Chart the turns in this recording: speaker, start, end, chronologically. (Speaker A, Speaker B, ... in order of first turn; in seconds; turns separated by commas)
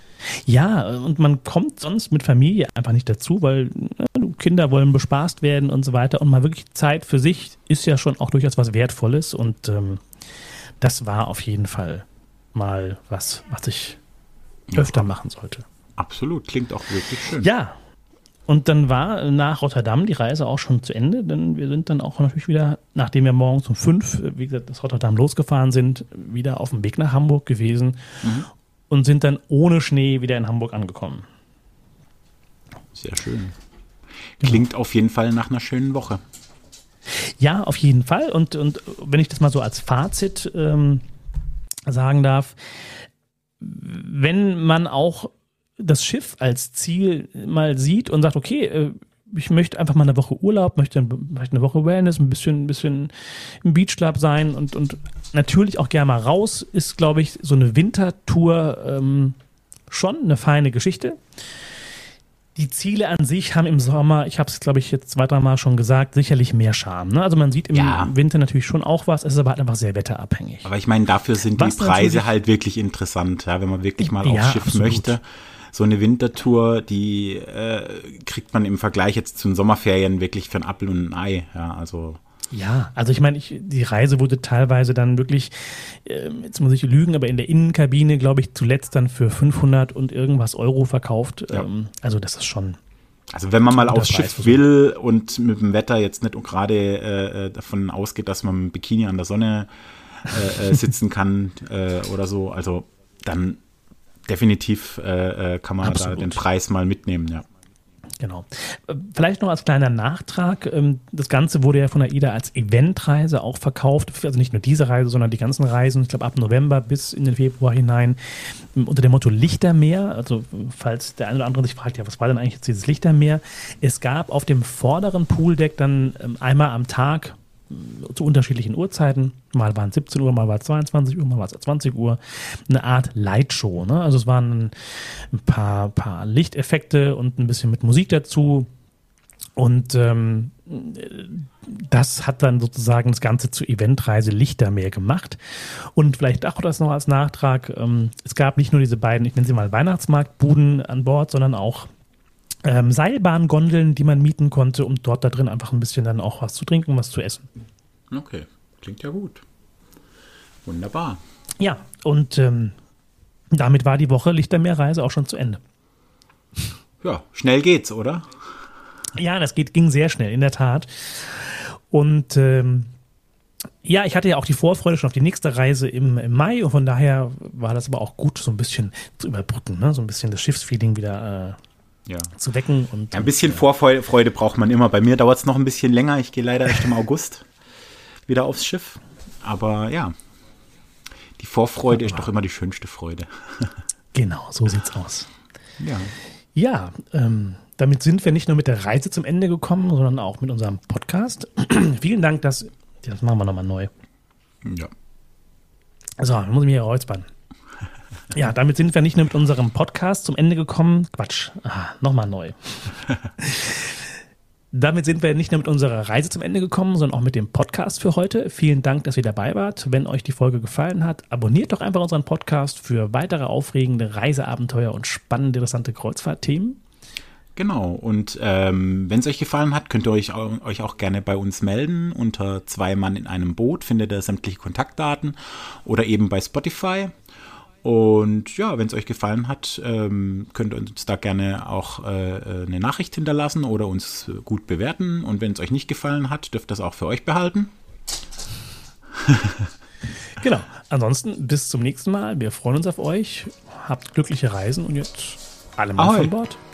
Speaker A: 0.2-10.0, Speaker A: 10.8-14.0, Speaker B: 14.7-15.1, Speaker A: 14.7-15.7, Speaker B: 16.0-17.5, Speaker A: 17.3-17.8, Speaker A: 18.5-31.2, Speaker B: 28.2-28.5, Speaker B: 32.9-33.5, Speaker B: 34.4-36.2, Speaker A: 37.1-41.0, Speaker A: 41.9-42.6, Speaker A: 43.6-59.4, Speaker A: 59.9-61.2, Speaker A: 62.5-70.7, Speaker B: 67.7-68.1, Speaker B: 70.6-82.2, Speaker A: 71.5-72.3, Speaker A: 74.0-75.1, Speaker A: 82.5-92.8, Speaker B: 93.3-103.6, Speaker A: 93.7-94.6, Speaker B: 104.3-107.4, Speaker A: 105.8-106.4, Speaker A: 108.2-138.7, Speaker A: 139.6-151.9, Speaker A: 152.6-157.5, Speaker B: 158.1-159.4, Speaker B: 160.6-161.2, Speaker A: 161.6-162.7, Speaker A: 163.5-165.6, Speaker B: 167.0-168.3, Speaker A: 169.1-172.9, Speaker A: 173.8-181.6, Speaker B: 182.1-182.3, Speaker A: 182.3-183.6, Speaker B: 183.1-187.5, Speaker B: 188.3-190.1, Speaker B: 191.4-193.8, Speaker A: 191.9-192.3, Speaker A: 194.1-195.3, Speaker B: 195.8-196.1, Speaker A: 196.5-203.9, Speaker B: 204.6-204.9, Speaker A: 206.2-207.3, Speaker A: 208.3-214.1, Speaker A: 214.7-226.8, Speaker B: 227.6-237.1, Speaker B: 237.8-247.7, Speaker B: 249.1-249.7, Speaker A: 250.4-256.6, Speaker B: 256.0-256.3